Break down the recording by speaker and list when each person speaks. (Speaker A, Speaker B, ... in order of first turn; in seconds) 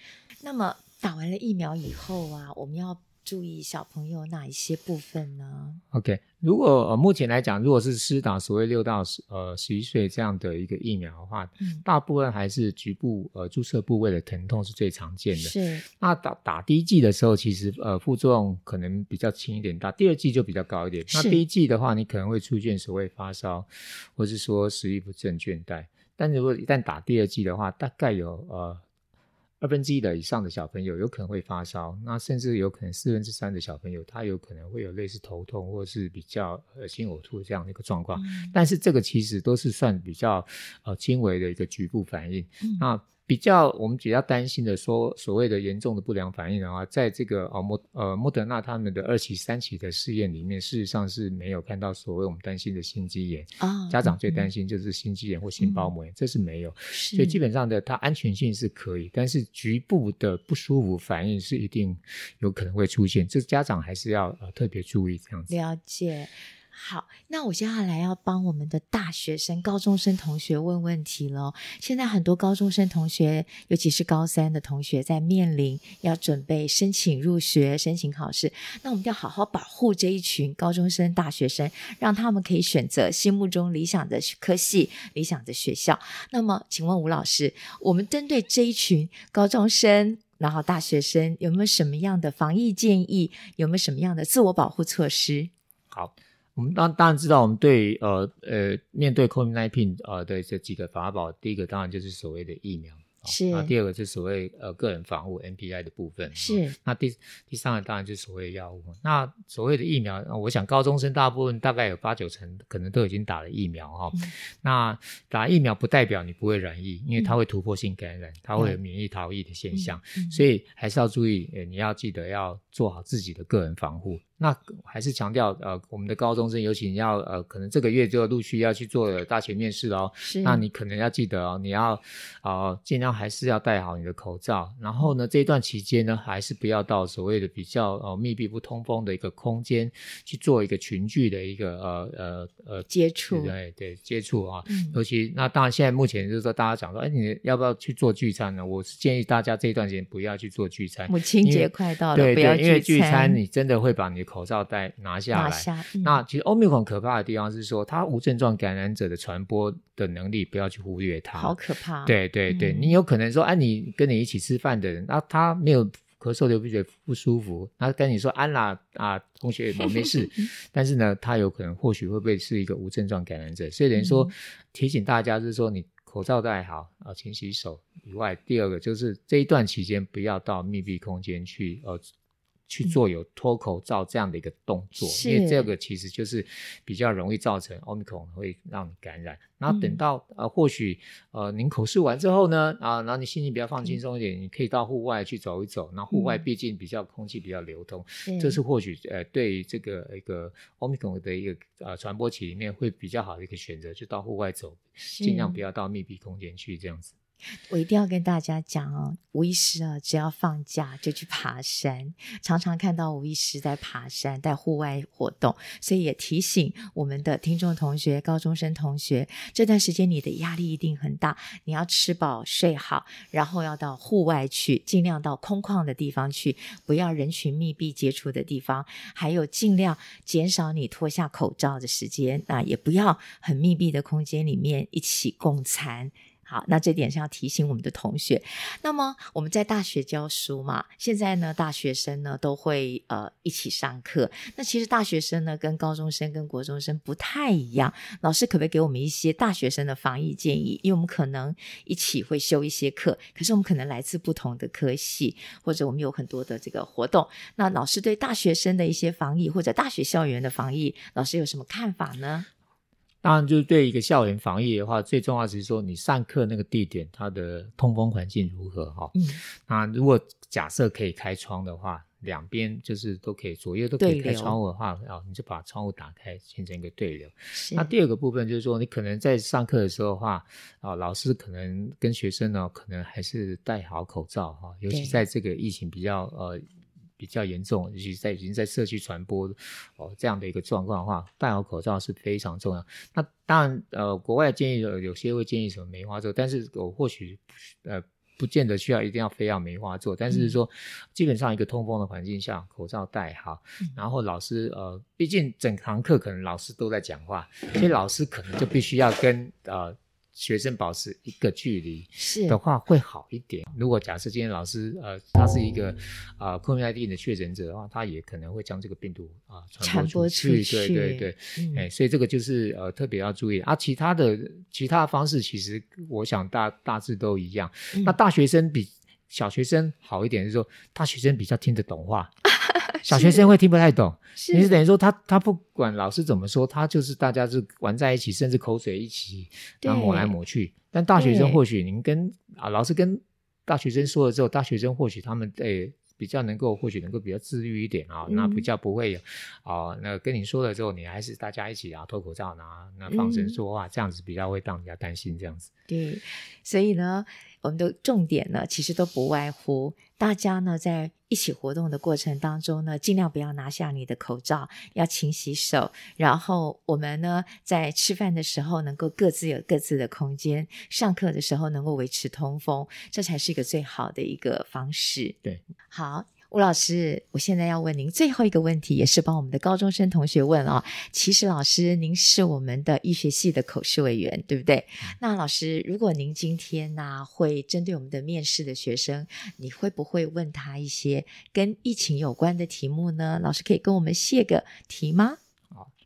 Speaker A: 0.4-5.8, 15.3-15.9, 21.1-21.4, 38.2-38.5, 53.6-54.5, 55.6-55.9, 56.9-57.4, 65.5-95.5, 103.3-103.7, 106.3-106.8, 119.7-120.4, 130.2-130.7, 142.9-143.6, 144.7-145.0, 151.1-153.4, 155.3-156.2, 161.3-163.0, 169.8-170.5, 173.9-174.3, 185.0-185.7, 189.7-190.0, 196.1-196.4, 198.3-198.6, 205.0-205.6, 207.7-262.5, 269.1-269.4, 274.0-274.6, 277.5-277.9, 284.9-285.2, 300.3-300.6, 312.2-312.6, 319.8-321.9, 332.7-333.5, 334.4-334.8, 339.8-340.4, 341.2-341.6, 348.3-348.7, 353.1-353.6, 355.9-375.4, 375.9-395.4
Speaker B: 5.9-28.8, 29.6-65.5, 95.9-182.0, 182.7-207.1, 263.2-286.6, 287.2-332.3, 333.1-355.7